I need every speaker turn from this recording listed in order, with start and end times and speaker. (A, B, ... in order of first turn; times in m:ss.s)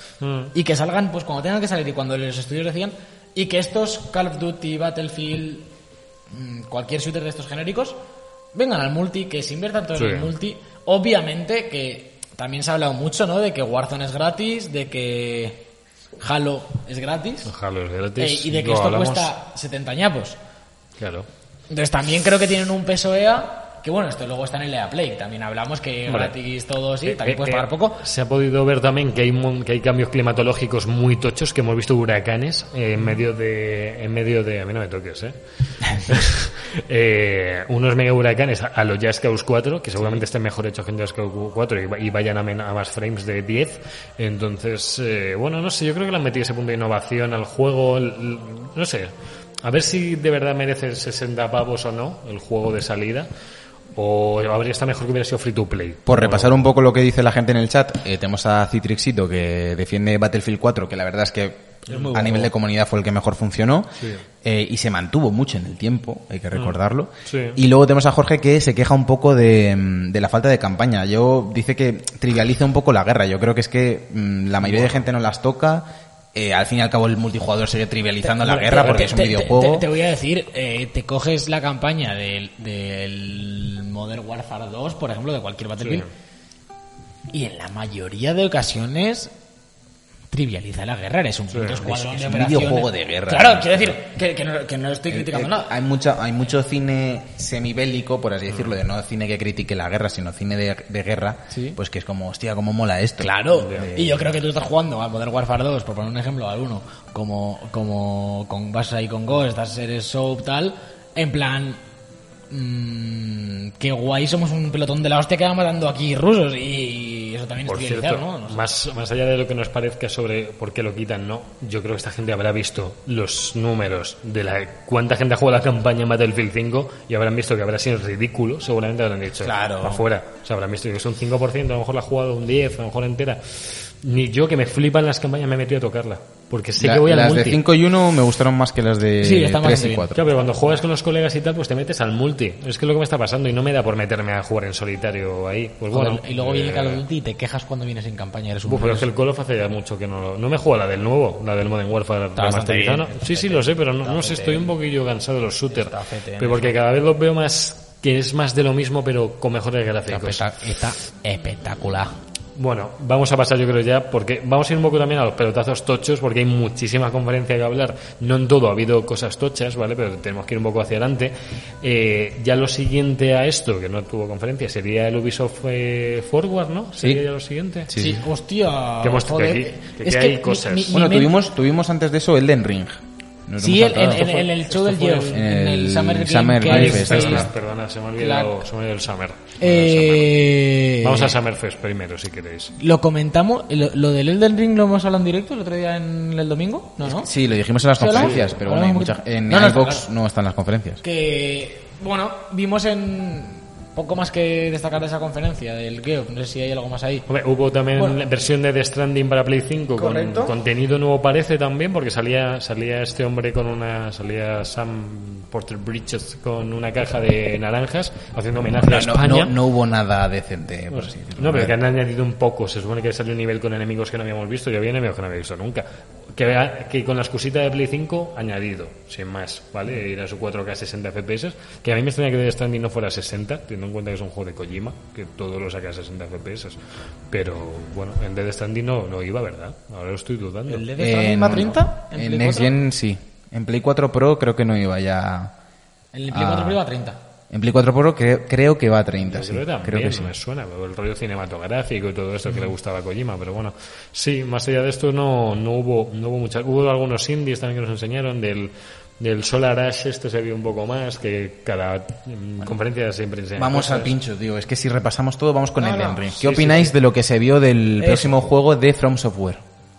0:00.2-0:00.5 A
0:00.5-0:05.7 B
0:06.3-0:08.0 B
0:08.5-0:15.7 B
0:10.0-0:10.3 A
0:16.2-0:17.5 B
0:17.5-0:19.3 A
0:18.2-0:20.4 B
0:21.0-0:21.3 A
0:21.7-0:28.0 B
0:26.1-0:26.4 A
0:27.0-0:49.1 A
0:49.6-0:53.3 A
0:54.0-0:56.6 A
0:56.1-1:19.9 C
1:01.9-1:02.4 A
1:01.9-1:02.5 B
1:06.5-1:07.6 A
1:14.7-1:15.0 A
1:18.2-1:26.1 B
1:18.6-1:19.1 A
1:25.8-1:26.1 A
1:27.3-1:29.3 B
1:30.3-1:35.7 B
1:31.5-1:31.9 A
1:32.0-1:34.0 C
1:35.1-1:44.4 C
1:41.5-1:41.8 B
1:43.2-1:51.8 B
1:43.6-1:43.9 A
1:52.5-1:58.6 B
1:57.7-2:17.6 A
2:09.4-2:10.0 C
2:16.8-2:20.3 C
2:19.2-2:20.1 B
2:20.1-2:27.0 A
2:25.9-2:29.1 B
2:28.7-2:40.5 A
2:32.4-2:34.7 B
2:35.7-2:36.8 B
2:40.1-2:42.2 B
2:42.6-2:57.9 A
2:57.9-2:58.2 C
2:58.0-3:01.3 B
2:59.0-3:01.0 A
3:00.9-3:04.3 C
3:03.6-3:07.5 B
3:04.0-3:05.3 A
3:05.2-3:07.5 C
3:06.6-3:10.3 A
3:08.2-3:08.6 B
3:09.6-3:11.3 B
3:11.0-3:12.8 A
3:12.8-3:17.3 B
3:17.0-3:21.0 C
3:18.0-3:20.1 B
3:18.1-3:18.4 A
3:21.0-3:27.2 B
3:27.3-3:39.6 A
3:28.0-3:28.2 B
3:30.0-3:30.6 B
3:38.8-3:41.8 C
3:40.9-4:00.9 A
4:00.7-4:02.7 B
4:01.0-4:05.5 C
4:06.1-4:07.2 B
4:06.3-4:06.8 C
4:07.5-4:10.3 C
4:09.2-4:24.1 A
4:23.6-4:29.6 C
4:25.8-4:26.3 B
4:26.4-4:26.9 A
4:28.0-4:28.4 B